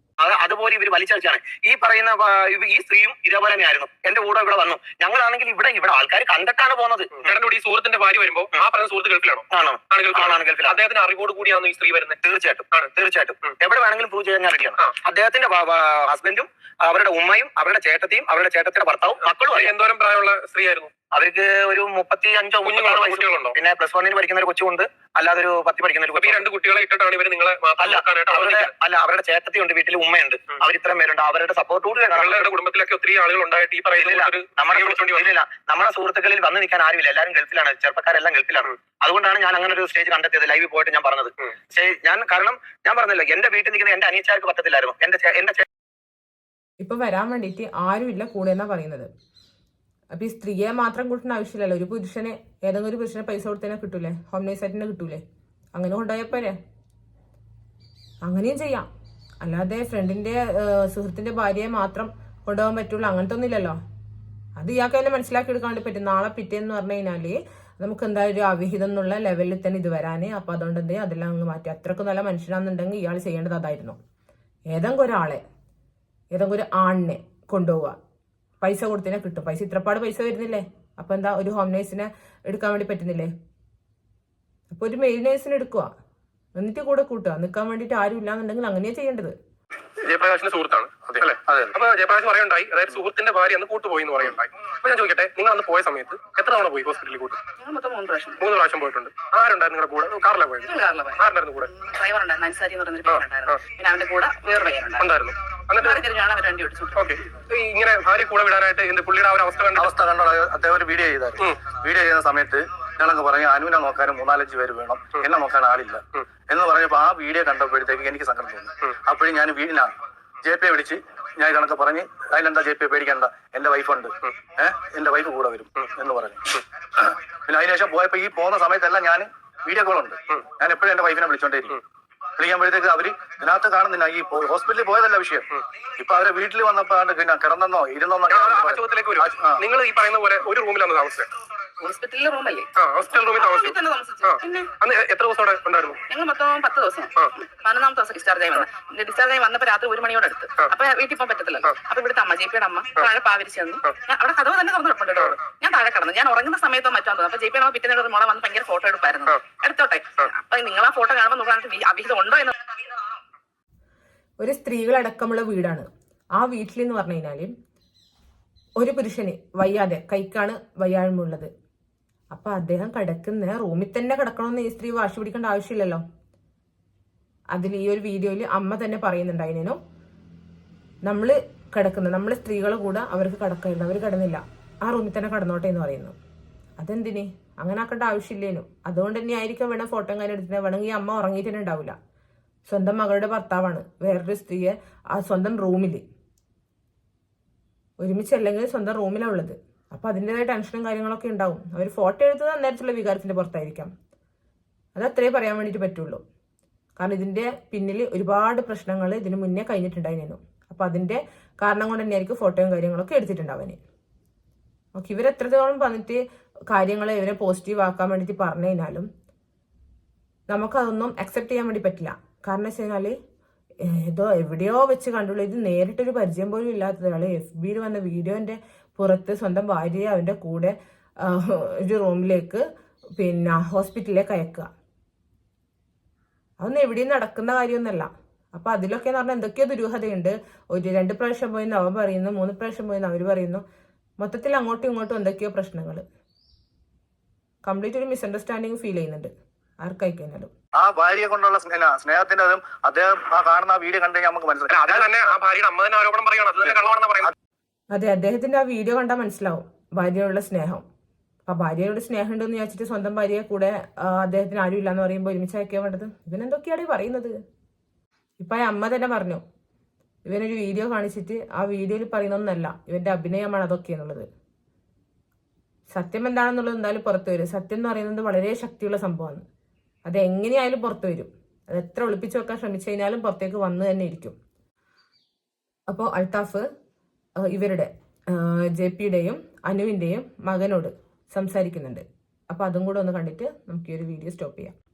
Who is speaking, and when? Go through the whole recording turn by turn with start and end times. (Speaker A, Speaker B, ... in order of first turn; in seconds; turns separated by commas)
Speaker A: 0.2-7.2, Speaker B: 7.2-12.2, Speaker A: 9.5-10.8, Speaker A: 12.2-19.7, Speaker B: 19.5-20.9, Speaker A: 21.1-26.4, Speaker B: 22.6-23.6, Speaker B: 26.1-28.7, Speaker A: 27.8-32.5, Speaker B: 32.1-35.2, Speaker A: 33.9-45.6, Speaker C: 46.8-49.1, Speaker C: 50.1-55.2, Speaker C: 55.7-56.6, Speaker C: 58.2-58.9, Speaker C: 59.4-63.8, Speaker C: 64.6-74.0, Speaker C: 74.7-75.4, Speaker C: 76.3-78.0, Speaker C: 78.6-83.3, Speaker C: 84.7-85.9, Speaker C: 86.6-89.3, Speaker B: 90.0-97.4, Speaker D: 97.6-98.5, Speaker B: 98.4-101.7, Speaker D: 100.6-105.1, Speaker B: 103.1-103.6, Speaker B: 105.0-106.0, Speaker D: 105.7-107.1, Speaker B: 106.9-109.9, Speaker E: 109.8-126.4, Speaker B: 111.4-111.7, Speaker E: 127.0-131.8, Speaker E: 132.4-135.5, Speaker E: 136.0-139.6, Speaker B: 138.3-141.3, Speaker D: 141.8-144.7, Speaker B: 142.8-146.0, Speaker D: 146.1-162.6, Speaker C: 164.4-167.5, Speaker C: 168.8-171.5, Speaker C: 172.3-176.0, Speaker C: 177.5-179.8, Speaker C: 181.0-186.2, Speaker C: 186.8-191.9, Speaker C: 192.7-196.0, Speaker C: 198.0-203.9, Speaker C: 204.9-206.2, Speaker C: 207.0-213.8, Speaker C: 214.9-216.2, Speaker C: 216.7-219.1, Speaker C: 220.5-223.1, Speaker C: 223.8-232.6, Speaker C: 233.2-234.7, Speaker C: 236.6-243.6, Speaker C: 244.2-246.0, Speaker C: 247.6-249.3, Speaker C: 249.8-250.5, Speaker E: 250.8-255.1, Speaker B: 254.7-257.3, Speaker C: 257.9-260.8, Speaker C: 261.5-267.3, Speaker C: 268.4-269.4, Speaker C: 270.2-274.2, Speaker C: 275.9-279.4, Speaker C: 280.1-284.3, Speaker C: 285.9-286.6, Speaker C: 287.5-294.7